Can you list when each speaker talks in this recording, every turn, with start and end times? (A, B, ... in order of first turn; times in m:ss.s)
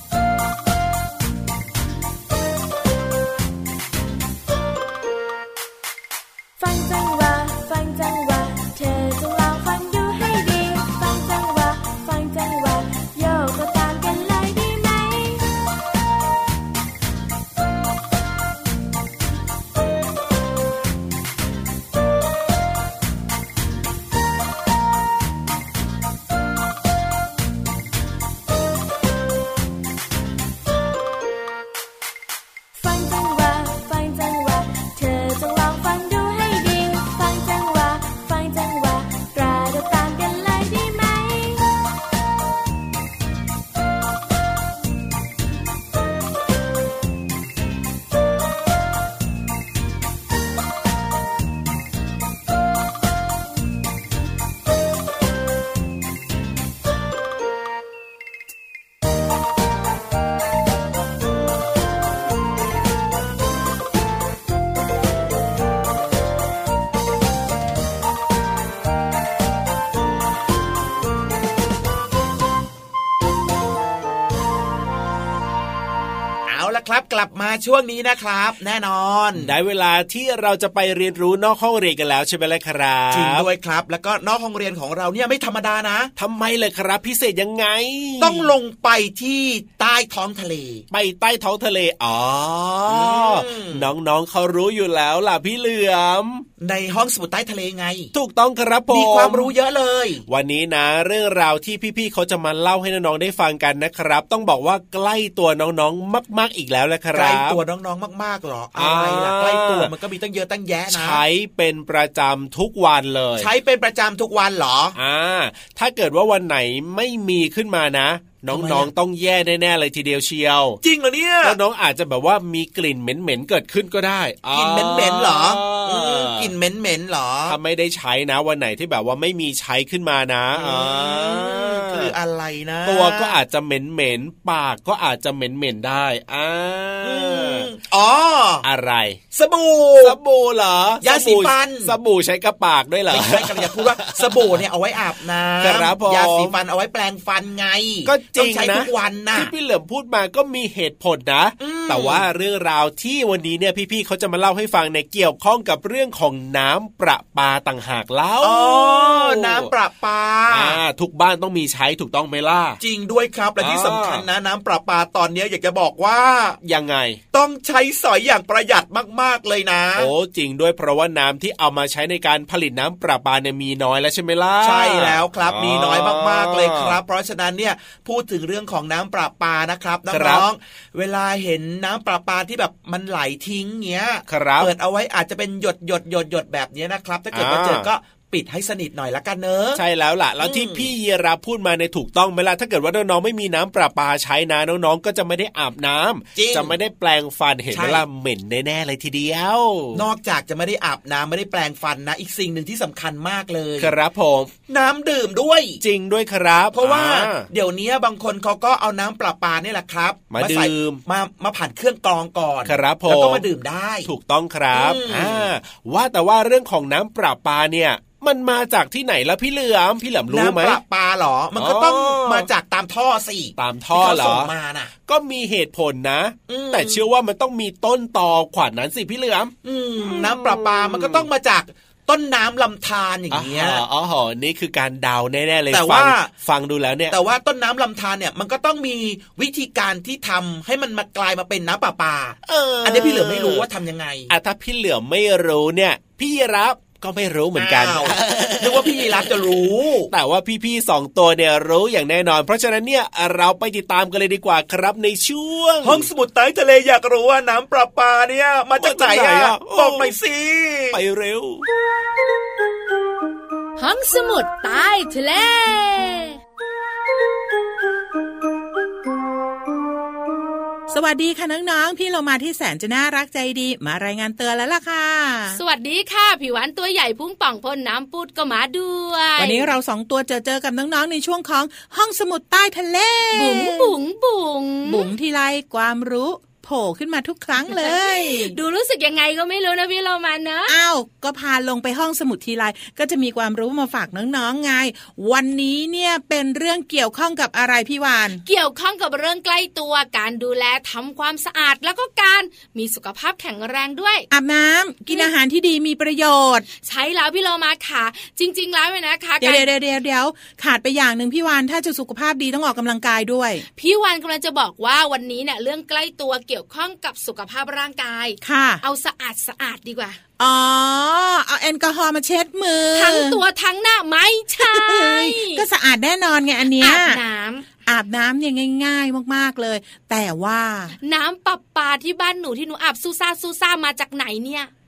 0:06.6-0:15.4 A
0:32.8-0:41.6 A
1:16.5-1:19.5 B
1:19.3-1:23.4 C
1:23.1-1:26.1 B
1:26.2-1:28.5 C
1:28.2-1:30.8 B
1:30.9-1:36.4 C
1:32.9-1:33.9 B
1:36.6-1:38.1 B
1:38.1-1:39.5 C
1:38.9-1:40.2 B
1:40.3-1:47.6 C
1:47.1-1:51.2 B
1:48.8-1:49.9 C
1:50.9-1:53.5 C
1:53.4-1:55.0 B
1:54.9-2:00.8 C
1:58.5-1:58.9 B
2:00.8-2:01.6 B
2:01.4-2:06.5 C
2:04.5-2:07.6 B
2:07.5-2:12.1 C
2:10.6-2:13.4 B
2:12.8-2:17.7 C
2:17.0-2:18.6 B
2:18.6-2:19.2 C
2:19.3-2:20.2 B
2:20.0-2:24.6 C
2:21.0-2:21.9 B
2:23.1-2:29.5 B
2:25.6-2:26.5 C
2:28.0-2:39.7 C
2:31.6-2:32.2 B
2:38.4-2:40.8 B
2:40.5-2:42.8 C
2:42.8-2:46.6 B
2:43.6-2:44.2 C
2:46.6-2:47.2 C
2:47.3-2:50.1 B
2:50.0-2:57.0 C
2:54.6-3:09.8 B
3:00.1-3:00.4 C
3:04.3-3:04.7 C
3:07.3-3:07.9 C
3:09.7-3:20.0 C
3:10.4-3:10.9 B
3:16.4-3:16.8 B
3:17.7-3:18.0 B
3:19.9-3:23.9 B
3:23.8-3:24.5 C
3:24.7-3:25.8 B
3:25.8-3:27.5 C
3:26.7-3:34.1 B
3:30.3-3:31.0 C
3:32.6-3:33.4 C
3:34.0-3:40.8 C
3:34.7-3:35.5 B
3:40.3-3:44.9 B
3:41.5-3:42.5 C
3:43.6-3:44.5 C
3:45.0-3:51.3 C
3:46.5-3:47.0 B
3:49.6-3:53.8 B
3:53.3-3:57.2 C
3:55.7-3:56.3 B
3:57.1-4:04.3 B
4:02.4-4:03.7 C
4:04.3-4:16.1 C
4:07.6-4:10.1 B
4:15.8-4:21.0 B
4:18.8-4:20.1 C
4:20.9-4:21.6 C
4:23.8-4:26.4 D
4:30.9-4:35.6 E
4:35.5-4:39.7 D
4:39.4-4:44.0 E
4:43.3-4:45.1 D
4:44.8-4:48.6 E
4:47.7-4:50.7 D
4:50.7-4:58.4 E
4:58.4-5:04.3 D
5:04.3-5:06.6 E
5:06.8-5:09.7 D
5:09.4-5:13.6 E
5:13.8-5:20.2 D
5:18.4-5:18.8 E
5:20.4-5:23.4 E
5:23.0-5:25.6 D
5:24.6-5:27.2 E
5:26.8-5:27.7 D
5:27.8-5:31.0 E
5:31.0-5:34.7 D